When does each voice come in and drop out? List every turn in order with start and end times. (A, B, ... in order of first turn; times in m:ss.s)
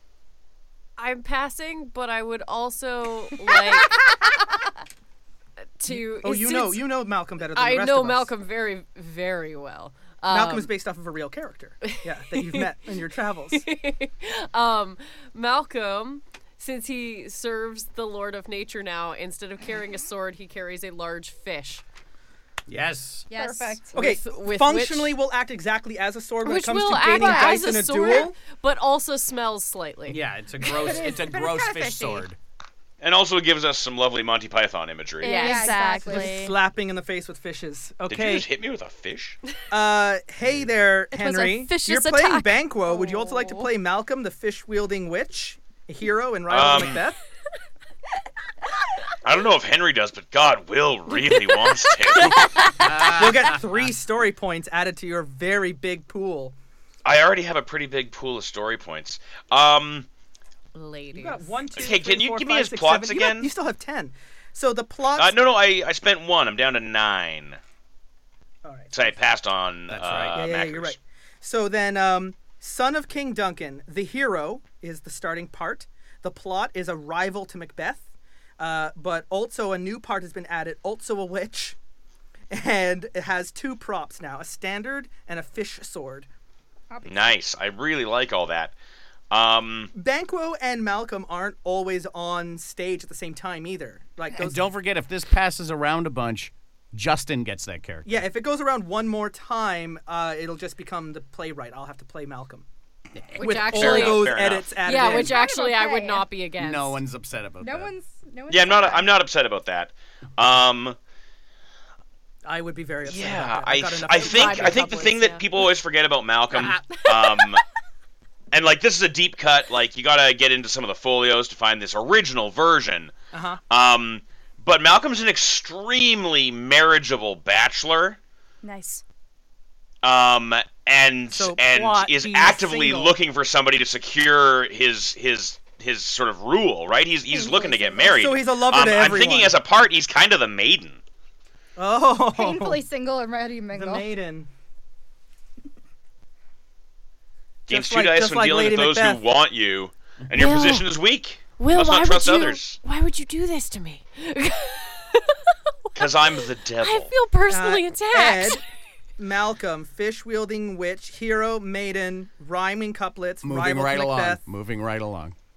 0:01.0-0:04.2 A
0:05.8-0:06.8 A
0:05.8-0:08.3 B
0:07.5-0:10.7 A
0:10.3-0:13.6 B
0:11.9-0:12.7 A
0:13.5-0:21.8 A
0:22.7-0:23.3 C
0:23.3-0:24.0 D
0:23.4-0:25.1 A
0:23.9-0:28.4 B
0:26.4-0:30.2 A
0:27.1-0:28.2 D
0:30.1-0:32.4 C
0:30.6-0:32.3 D
0:33.0-0:35.6 E
0:35.2-0:35.9 A
0:35.2-0:36.4 D
0:35.2-0:36.6 F
0:36.0-0:38.5 B
0:38.1-0:39.4 E
0:39.7-0:47.2 B
0:41.1-0:43.7 F
0:46.5-0:47.0 E
0:49.2-0:52.6 E
0:52.4-0:52.9 F
0:52.8-0:53.9 C
0:52.9-0:56.5 B
0:57.0-1:00.1 E
1:00.7-1:01.5 A
1:01.1-1:05.3 B
1:01.7-1:03.5 E
1:05.2-1:07.6 E
1:08.6-1:09.2 B
1:08.9-1:11.0 E
1:09.9-1:10.4 C
1:10.3-1:18.1 B
1:18.6-1:21.8 B
1:22.5-1:26.3 B
1:26.9-1:27.4 D
1:27.0-1:28.7 E
1:29.3-1:29.9 E
1:29.9-1:34.7 B
1:34.3-1:38.2 C
1:38.0-1:42.6 B
1:43.3-1:45.4 B
1:43.4-1:47.0 A
1:43.6-1:44.9 E
1:44.9-1:46.2 D
1:46.6-1:47.9 C
1:47.6-1:49.2 D
1:48.5-1:51.0 E
1:52.4-1:55.2 B
1:53.0-1:57.6 E
1:54.2-1:55.7 A
1:56.6-1:57.1 A
1:58.5-2:03.1 E
2:03.3-2:03.6 B
2:03.7-2:08.2 E
2:08.6-2:09.0 F
2:10.0-2:21.0 E
2:11.3-2:13.2 B
2:17.4-2:18.0 D
2:18.0-2:19.6 B
2:21.8-2:22.8 B
2:22.3-2:24.1 D
2:23.7-2:24.5 B
2:27.7-2:32.8 E
2:27.7-2:29.2 B
2:30.4-2:30.9 A
2:31.6-2:38.6 A
2:36.0-2:37.1 E
2:37.5-2:38.6 B
2:39.2-2:44.4 B
2:43.4-2:45.3 C